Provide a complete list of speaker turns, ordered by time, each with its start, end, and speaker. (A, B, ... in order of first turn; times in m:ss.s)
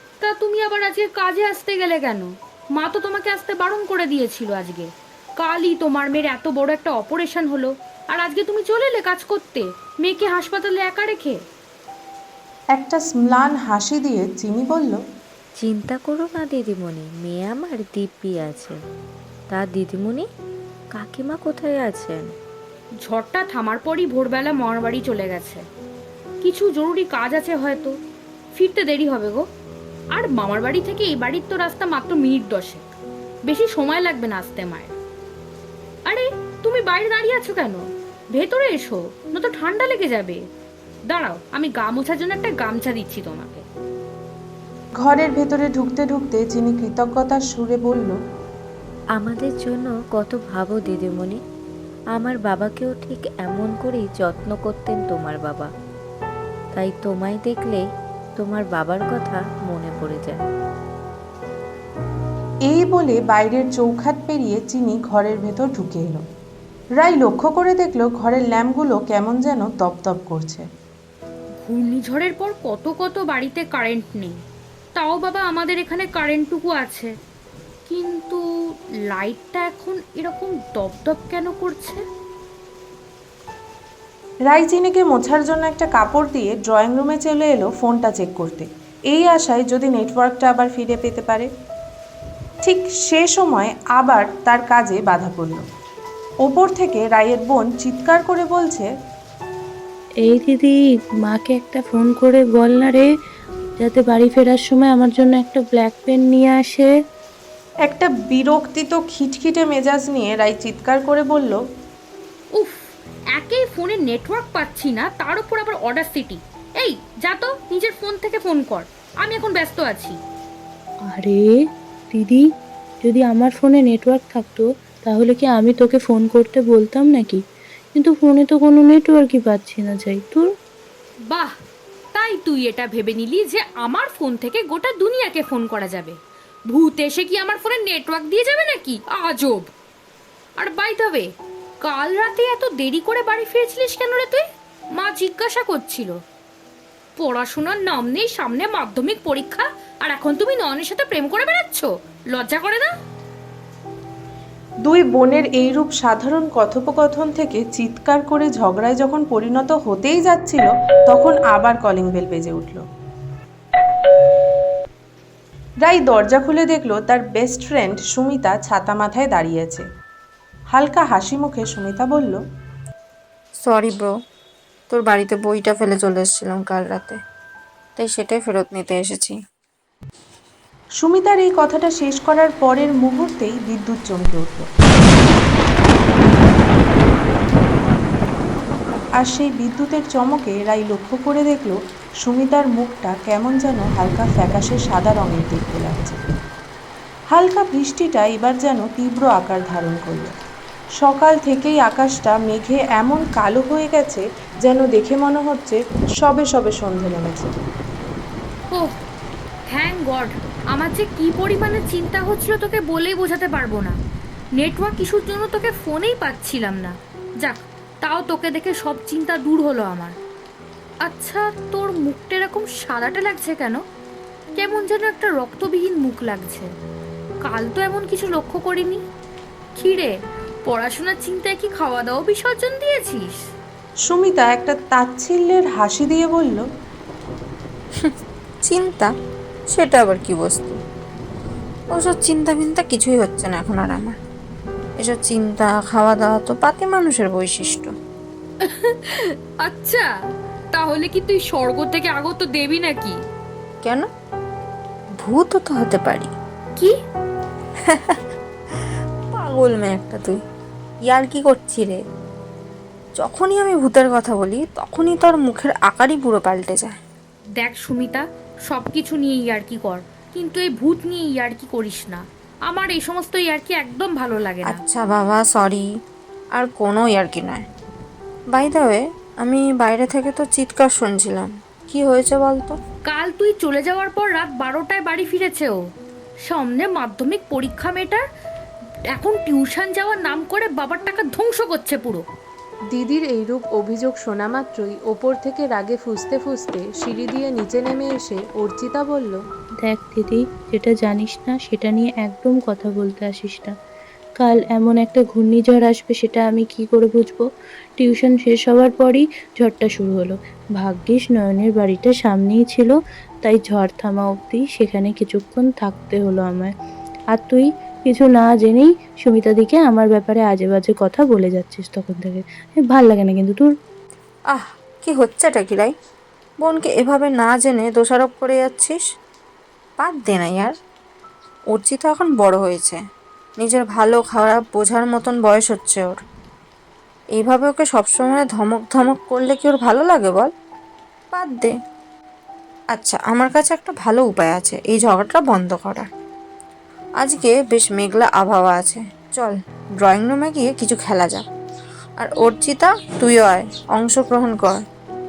0:00.2-0:11.4 A
0:12.8-0:15.0 B
0:15.6-0:18.8 C
0:19.5-0:20.2 C
0:20.9-0:22.3 C
0:23.0-0:25.6 A
0:26.4-0:27.9 A
0:28.6-0:29.4 A
0:30.2-0:32.9 A
0:33.4-0:34.9 A
0:36.1-0:40.4 A
0:41.1-0:43.6 A
0:45.0-0:48.2 B
0:49.2-0:51.4 C
0:52.1-0:55.7 C
0:56.7-0:57.8 C
0:58.4-1:00.4 C
1:02.7-1:06.2 B
1:07.0-1:10.6 B
1:11.6-1:14.4 A
1:15.0-1:17.1 A
1:17.9-1:18.4 A
1:19.1-1:22.0 A
1:24.5-1:31.5 B
1:32.6-1:35.6 B
1:36.4-1:38.9 B
1:40.3-1:43.0 D
1:43.8-1:46.9 D
1:47.9-1:51.6 B
1:52.6-2:00.2 A
2:01.1-2:01.5 D
2:02.1-2:02.4 D
2:03.0-2:07.4 D
2:07.9-2:10.5 D
2:12.1-2:16.2 A
2:16.7-2:19.7 A
2:20.6-2:21.3 A
2:21.8-2:24.4 A
2:25.0-2:26.2 A
2:27.2-2:32.9 A
2:34.9-2:42.8 B
2:45.8-2:49.8 B
2:50.7-2:52.4 B
2:53.6-2:54.1 E
2:54.9-2:57.2 E
2:58.0-2:59.4 E
3:01.0-3:04.7 B
3:09.2-3:16.2 B
3:17.3-3:20.3 B
3:21.0-3:27.5 B
3:29.7-3:34.0 A
3:34.6-3:40.2 A
3:41.0-3:43.8 A
3:44.6-3:46.7 A
3:47.4-3:49.0 A
3:49.8-3:50.1 A
3:50.6-3:53.4 A
3:54.1-3:56.6 B
3:58.6-3:59.1 E
3:59.7-4:00.8 E
4:01.9-4:04.2 E
4:05.0-4:07.9 E
4:08.6-4:10.1 A
4:10.7-4:13.2 A
4:15.2-4:16.3 E
4:17.9-4:18.2 E
4:19.3-4:20.4 E
4:21.1-4:22.0 E
4:23.2-4:27.0 E
4:27.6-4:34.8 A
4:34.6-4:35.8 E
4:36.6-4:37.6 E
4:38.5-4:42.8 E
4:43.1-4:45.8 A
4:46.5-4:48.2 A
4:49.1-4:52.2 A
4:52.9-4:59.4 B
4:59.8-5:03.7 D
5:04.4-5:07.4 D
5:08.0-5:12.9 D
5:13.4-5:16.7 D
5:17.3-5:23.7 D
5:24.5-5:25.9 E
5:26.6-5:29.0 E
5:30.0-5:30.7 E
5:31.7-5:33.0 E
5:33.6-5:36.2 E
5:37.4-5:40.5 E
5:41.3-5:41.7 E
5:42.9-5:46.1 E
5:47.2-5:51.4 E
5:52.2-5:54.8 E